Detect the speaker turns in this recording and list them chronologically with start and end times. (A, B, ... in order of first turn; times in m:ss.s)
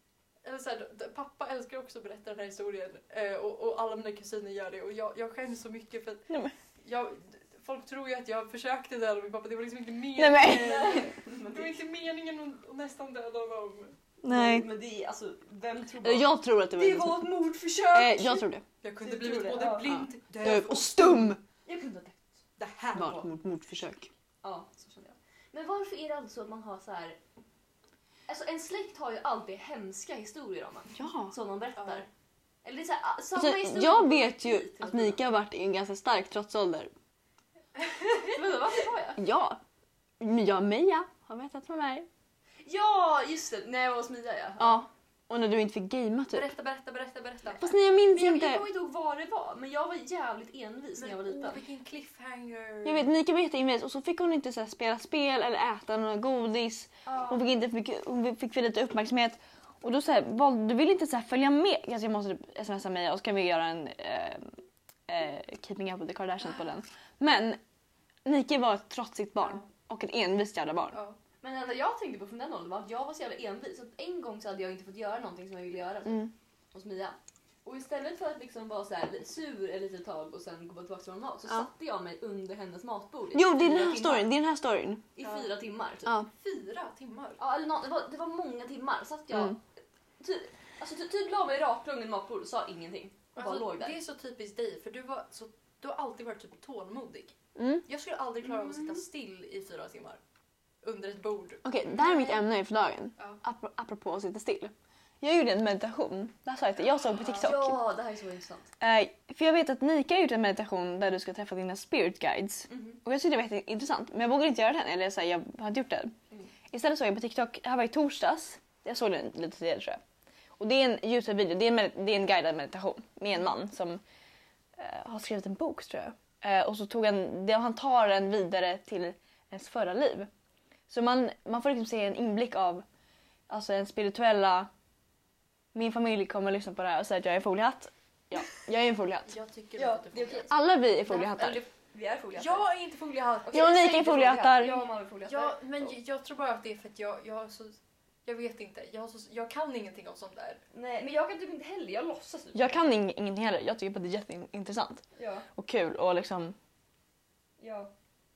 0:00.4-0:06.3 A
0:06.8-0:13.9 A
0:10.2-0:11.0 B
0:10.4-0:11.8 C
0:14.2-0:14.7 B
0:14.3-0:18.4 C
0:16.0-0:17.3 B
0:17.9-0:18.6 B
0:18.8-0:21.3 A
0:19.0-0:19.9 C
0:19.9-0:21.4 B
0:21.6-0:22.4 C
0:22.6-0:23.3 A
0:22.9-0:24.1 B
0:24.4-0:27.2 C
0:28.3-0:32.1 C
0:30.9-0:31.3 B
0:31.8-0:32.0 A
0:32.6-0:35.2 C
0:33.3-0:36.9 B
0:37.8-0:38.3 A
0:38.2-0:39.2 C
0:39.2-0:39.6 B
0:40.2-0:42.1 B
0:42.6-0:44.8 C
0:44.6-0:46.5 B
0:46.3-0:47.7 A
0:47.6-0:48.6 B
0:48.1-0:51.6 C
0:51.0-0:53.1 A
0:52.8-1:04.6 B
0:57.0-0:57.4 C
1:05.1-1:07.6 B
1:08.2-1:11.0 B
1:10.9-1:11.2 A
1:11.4-1:24.3 C
1:16.0-1:16.3 B
1:23.3-1:25.0 B
1:25.1-1:26.2 C
1:25.2-1:25.5 A
1:26.3-1:27.4 A
1:27.4-1:29.6 C
1:30.2-1:34.0 C
1:33.4-1:40.2 A
1:37.6-1:37.8 B
1:38.4-1:39.0 C
1:40.8-1:41.6 A
1:41.6-1:47.8 B
1:41.9-1:42.4 C
1:47.2-1:48.7 C
1:48.8-1:56.1 B
1:52.7-1:53.0 C
1:56.7-2:00.0 B
2:00.6-2:04.0 B
2:04.8-2:10.3 B
2:10.9-2:12.8 B
2:13.5-2:14.7 B
2:15.7-2:19.3 B
2:19.3-2:20.5 A
2:19.8-2:20.5 C
2:20.5-2:21.6 B
2:21.0-2:22.6 C
2:22.4-2:23.9 A
2:23.4-2:26.0 C
2:23.5-2:24.9 B
2:25.3-2:30.6 A
2:30.7-2:32.8 C
2:32.5-2:36.6 B
2:35.2-2:35.5 C
2:37.6-2:37.9 C